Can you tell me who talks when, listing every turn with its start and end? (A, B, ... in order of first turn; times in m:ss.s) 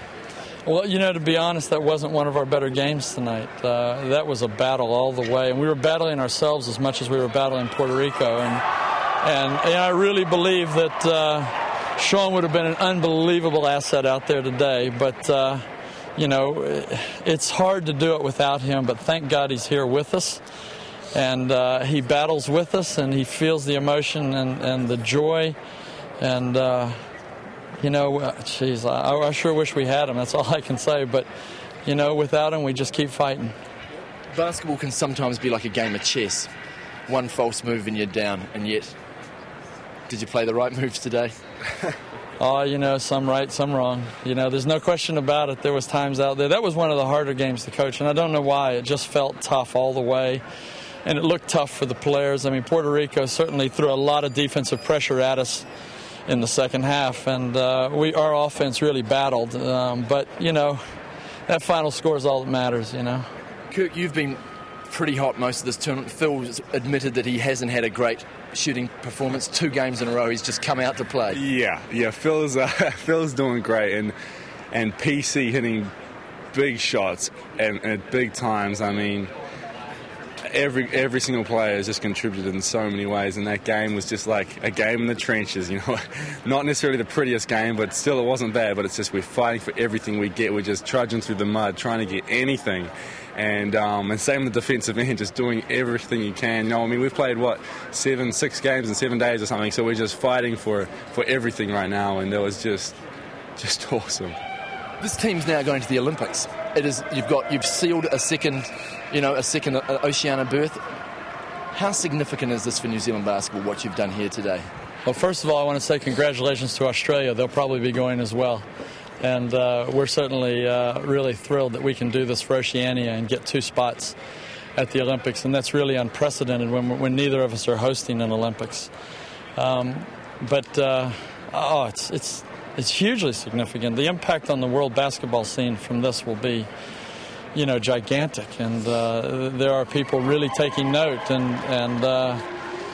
0:00.6-0:08.6 A
0:09.2-0:15.6 A
0:16.2-0:20.4 A
0:21.1-0:25.6 A
0:26.2-0:27.0 A
0:27.8-0:31.3 A
0:31.8-0:33.5 A
0:34.3-0:36.5 B
0:37.1-0:38.9 B
0:40.1-0:41.3 B
0:42.4-0:50.4 A
0:51.0-0:55.7 A
0:56.3-1:00.8 A
1:01.5-1:03.3 A
1:03.7-1:11.4 B
1:11.3-1:14.1 C
1:14.7-1:15.9 C
1:16.5-1:19.3 C
1:20.4-1:43.0 C
1:43.6-1:44.4 C
1:45.0-1:50.8 B
1:51.7-1:54.7 B
1:55.0-1:58.6 A
1:59.2-2:04.2 A
2:04.8-2:08.9 A
2:09.6-2:16.7 A
2:17.5-2:22.4 A